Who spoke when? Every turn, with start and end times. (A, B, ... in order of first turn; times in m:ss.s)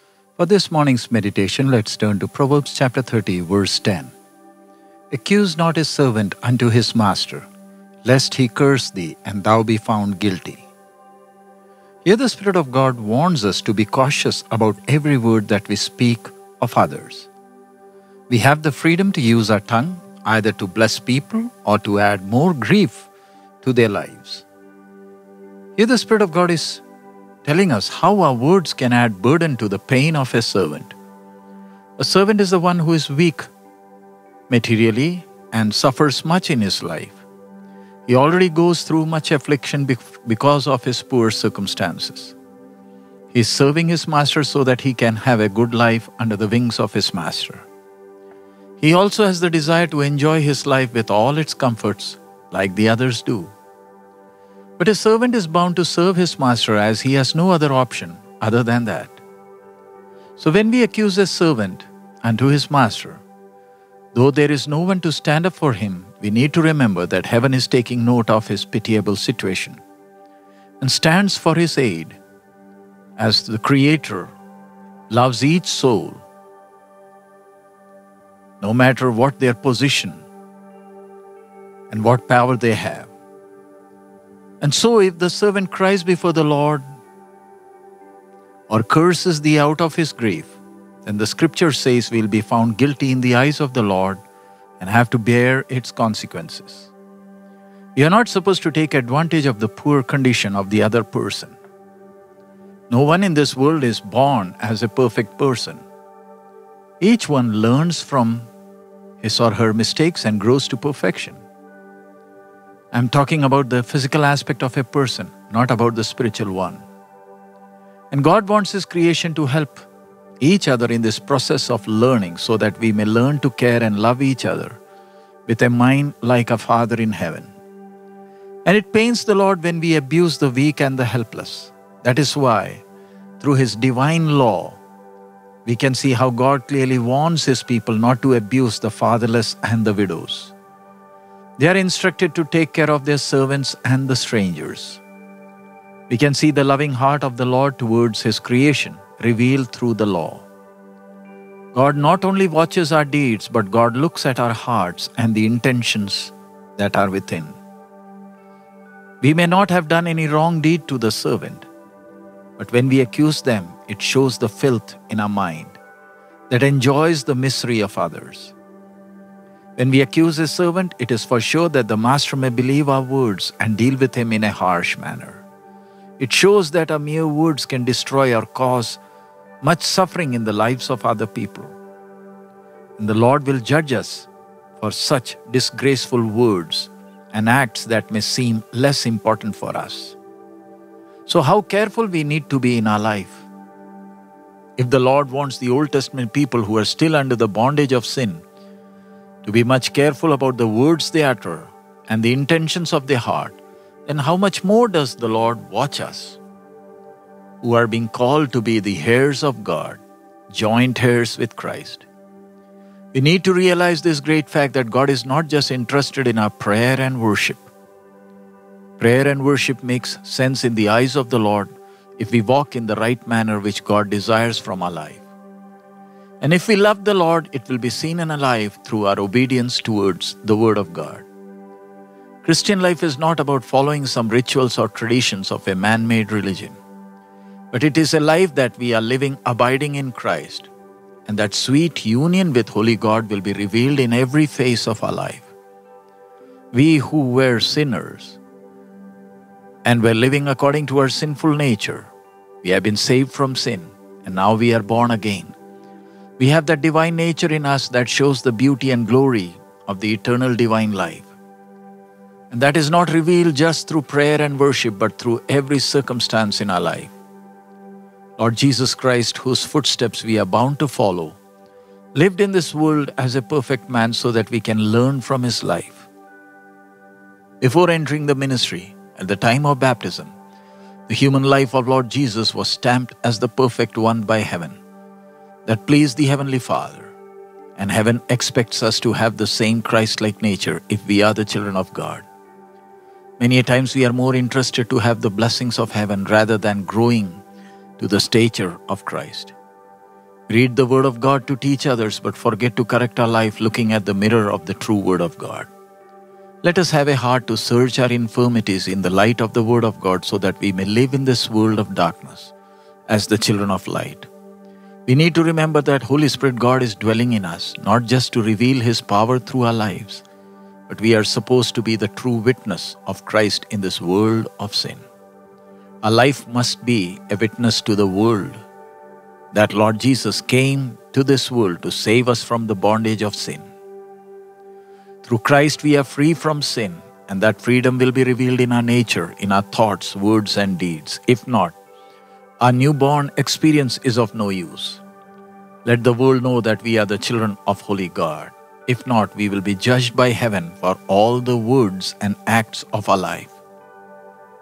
0:00.4-0:04.1 A
0:05.1-0:07.4 A
0:08.0-0:10.6 A
0:12.0-0:17.3 A
0:18.3-0:23.1 A
0:23.6-0:24.4 A
0:25.8-0:26.8 A
0:27.4-0:30.9 A
0:32.0-0:33.5 A
0:34.5-0:37.2 A
0:38.1-0:42.4 A
0:43.3-0:47.6 A
0:48.8-0:53.5 A
0:54.8-0:59.2 A
1:00.4-1:03.2 A
1:04.1-1:09.8 A
1:10.8-1:12.2 A
1:13.2-1:14.3 A
1:15.1-1:16.2 A
1:18.6-1:20.2 A
1:21.9-1:23.1 A
1:24.6-1:26.8 A
1:28.7-1:34.2 A
1:34.8-1:36.9 A
1:38.0-1:41.6 A
1:42.9-1:45.8 A
1:47.0-1:48.5 A
1:49.2-1:51.4 A
1:52.9-1:56.8 A
1:58.1-1:59.8 A
2:00.4-2:04.8 A
2:05.5-2:07.5 A
2:08.6-2:12.8 A
2:13.4-2:14.8 A
2:15.6-2:20.5 A
2:21.6-2:25.0 A
2:26.1-2:30.4 A
2:31.7-2:37.5 A
2:39.2-2:41.7 A
2:42.6-2:45.8 A
2:46.5-2:48.5 A
2:49.8-2:55.4 A
2:56.2-2:59.0 A
2:59.6-3:01.8 A
3:03.0-3:10.2 A
3:11.2-3:13.5 A
3:14.8-3:18.4 A
3:19.4-3:26.4 A
3:27.6-3:32.0 A
3:33.1-3:37.7 A
3:39.0-3:45.2 A
3:46.4-3:51.3 A
3:52.4-3:56.8 A
3:57.7-4:00.7 A
4:01.2-4:05.5 A
4:06.7-4:08.4 A
4:09.8-4:12.1 A
4:12.6-4:15.5 A
4:16.4-4:21.3 A
4:22.5-4:27.1 A
4:28.4-4:31.4 A
4:32.1-4:36.1 A
4:37.6-4:40.3 A
4:41.1-4:44.8 A
4:45.6-4:47.1 A
4:47.8-4:52.2 A
4:53.4-4:57.4 A
4:58.0-4:59.5 A
5:00.5-5:05.7 A
5:06.6-5:12.5 A
5:13.1-5:14.3 A
5:15.1-5:20.2 A
5:20.9-5:25.0 A
5:26.0-5:28.6 A
5:29.5-5:33.7 A
5:35.2-5:41.8 A
5:42.6-5:45.0 A
5:45.8-5:53.6 A